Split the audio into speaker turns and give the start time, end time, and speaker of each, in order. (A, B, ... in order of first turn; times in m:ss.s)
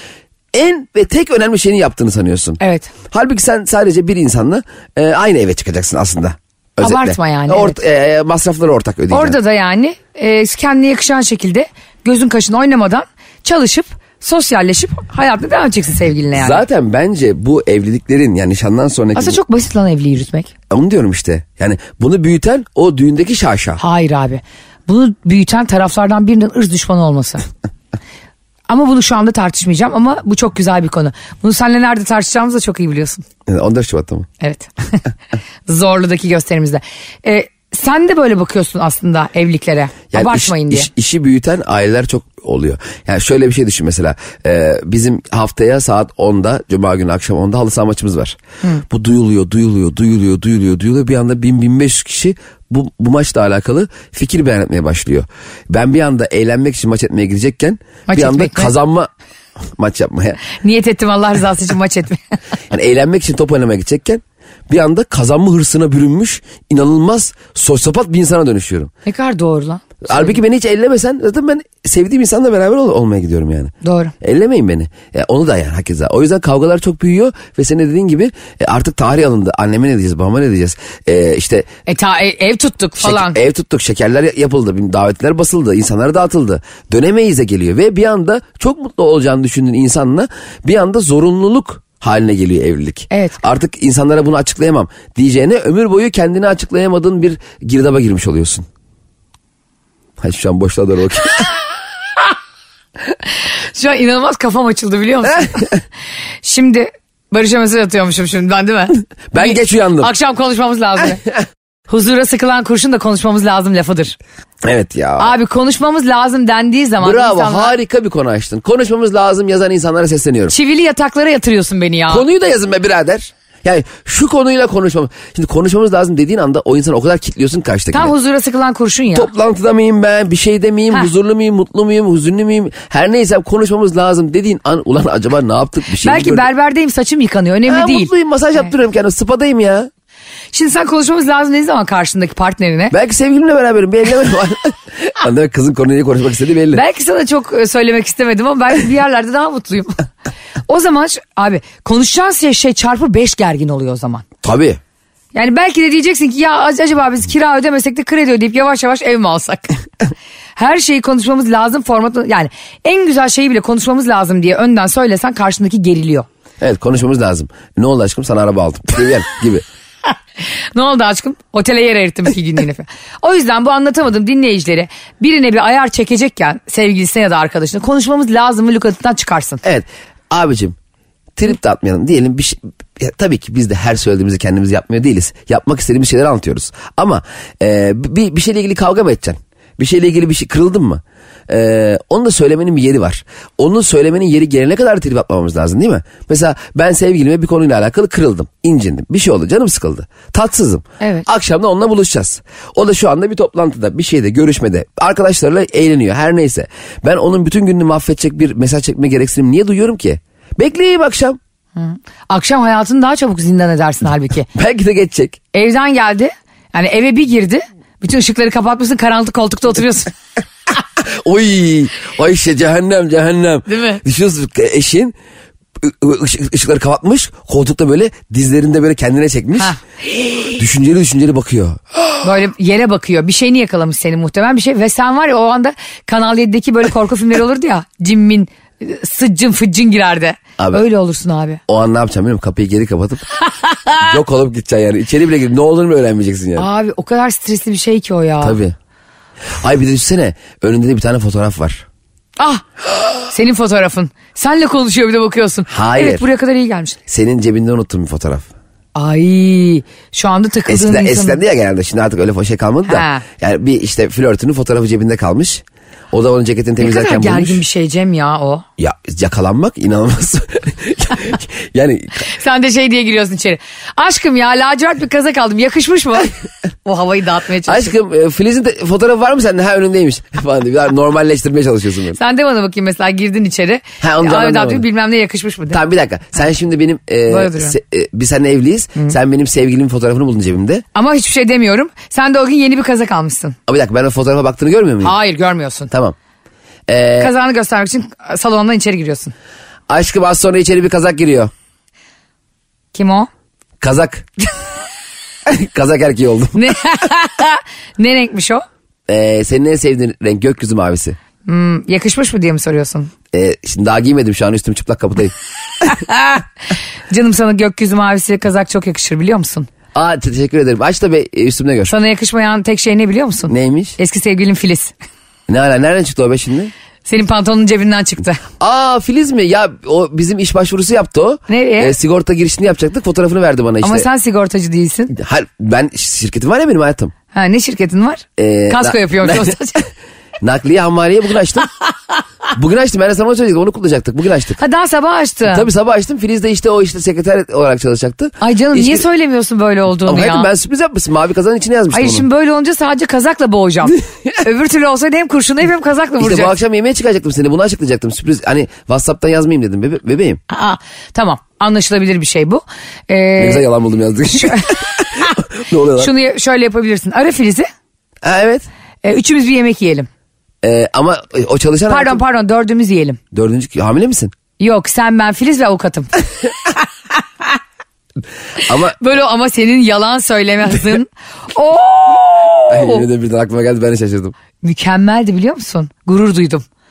0:00.5-0:09.4 A
0:02.6-0:02.9 B
0:06.8-0:07.8 B
0:09.1-0:16.6 B
0:16.3-0:19.4 A
0:19.2-0:20.5 B
0:20.7-0:23.8 A
0:23.8-0:27.4 B
0:28.7-0:33.2 B
0:33.5-0:34.3 A
0:34.4-0:35.0 B
0:35.7-0:40.9 B
0:40.1-0:48.4 A
0:48.9-0:59.1 A
0:58.1-0:58.7 B
0:59.6-1:00.4 A
1:00.5-1:02.2 B
1:02.7-1:08.9 A
1:09.1-1:10.4 B
1:10.0-1:21.7 A
1:13.8-1:14.1 B
1:21.9-1:23.4 B
1:23.0-1:38.7 A
1:33.1-1:33.4 B
1:40.2-1:41.5 A
1:43.7-1:45.7 B
1:46.4-1:51.2 B
1:49.3-1:50.1 A
1:51.9-1:54.2 B
1:54.6-1:55.4 A
1:55.2-1:57.8 B
1:57.0-2:00.6 A
2:00.5-2:02.2 B
2:02.1-2:08.1 A
2:07.9-2:09.3 B
2:09.2-2:16.5 A
2:16.0-2:18.1 B
2:17.7-2:19.9 A
2:20.5-2:23.0 B
2:22.9-2:26.8 A
2:26.7-2:30.0 B
2:30.7-2:34.3 B
2:34.4-2:34.8 A
2:35.3-2:39.7 B
2:40.6-2:46.3 B
2:46.6-2:49.6 A
2:50.8-2:59.6 B
2:59.6-3:00.8 A
3:01.4-3:31.4 A
3:21.0-3:21.3 B
3:31.8-3:34.5 B
3:34.5-3:35.4 A
3:35.5-3:40.1 B
3:41.0-3:45.2 A
3:43.7-3:44.0 B
3:45.8-3:49.8 A
3:50.5-3:51.8 A
3:52.2-4:01.6 B
4:00.6-4:00.8 A
4:01.7-4:03.3 A
4:04.0-4:06.7 A
4:06.6-4:08.6 B
4:08.4-4:08.8 A
4:09.5-4:11.9 A
4:12.4-4:12.6 B
4:13.3-4:17.0 B
4:15.7-4:16.3 A
4:17.1-4:18.5 A
4:19.0-4:21.4 B
4:20.7-4:27.6 A
4:22.9-4:23.2 B
4:26.8-4:28.6 B
4:28.8-4:32.3 A
4:32.2-4:36.3 B
4:36.8-4:37.9 B
4:37.7-4:42.2 A
4:42.2-4:45.8 B
4:44.0-4:44.9 A
4:45.7-4:50.8 A
4:47.3-4:47.8 B
4:51.0-4:53.6 B
4:53.7-4:55.2 A
4:55.0-4:55.9 B
4:55.9-4:56.2 A
4:56.9-4:57.3 A
4:57.2-4:59.3 B
4:59.9-5:01.5 A
5:02.9-5:03.3 B
5:03.8-5:04.3 A
5:05.5-5:06.7 A
5:06.6-5:08.6 B
5:09.1-5:11.2 A
5:11.5-5:13.1 B
5:13.3-5:16.0 A
5:17.1-5:19.7 B
5:20.0-5:21.9 A
5:21.9-5:24.9 B
5:23.5-5:24.0 A
5:25.5-5:26.7 A
5:27.1-5:28.4 B
5:28.6-5:34.1 A
5:31.5-5:32.0 B
5:33.8-5:35.1 B
5:35.1-5:37.1 A
5:37.3-5:39.9 B
5:38.4-5:39.6 A
5:40.4-5:41.7 A
5:42.6-5:44.6 A
5:44.6-5:45.7 B
5:45.5-5:49.0 A
5:48.4-5:50.5 B
5:50.0-5:52.3 A
5:51.9-5:56.6 B
5:56.2-6:00.4 A
6:00.5-6:03.6 B
6:03.4-6:06.1 A
6:06.0-6:07.7 B
6:08.2-6:08.7 A
6:09.0-6:10.1 B
6:10.6-6:12.2 A
6:11.9-6:13.2 B
6:13.3-6:14.3 A
6:14.6-6:16.1 B
6:18.6-6:19.0 A
6:19.0-6:23.1 B
6:22.7-6:24.4 A
6:24.6-6:26.6 B